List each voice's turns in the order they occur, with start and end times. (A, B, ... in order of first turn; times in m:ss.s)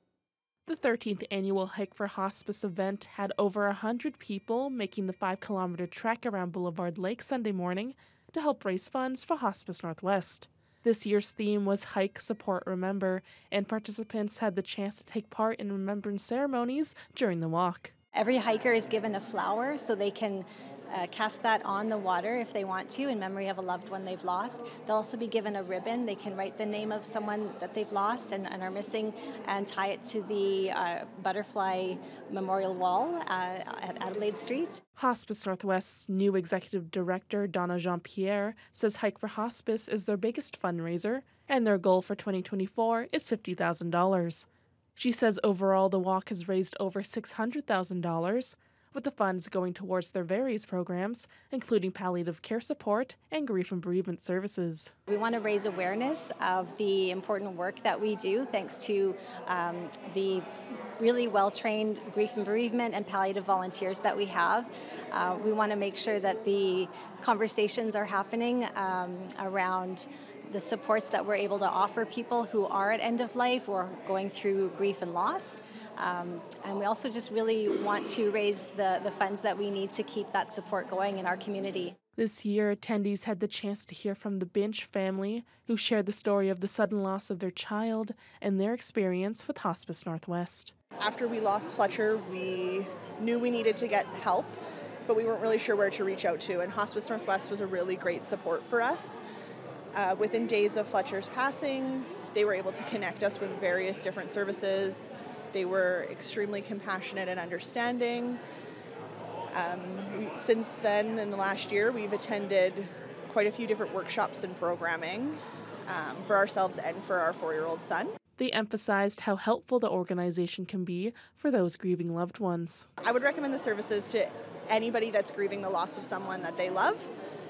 0:00.6-0:17.9 A
0:18.1-0:34.8 B
0:35.0-0:44.4 A
0:45.0-0:54.9 A
0:55.1-1:00.4 B
1:01.0-1:21.9 B
1:22.2-1:30.7 A
1:31.0-1:39.2 C
1:39.9-1:48.4 C
1:49.5-1:58.1 C
1:58.4-2:02.9 A
2:03.0-2:07.1 C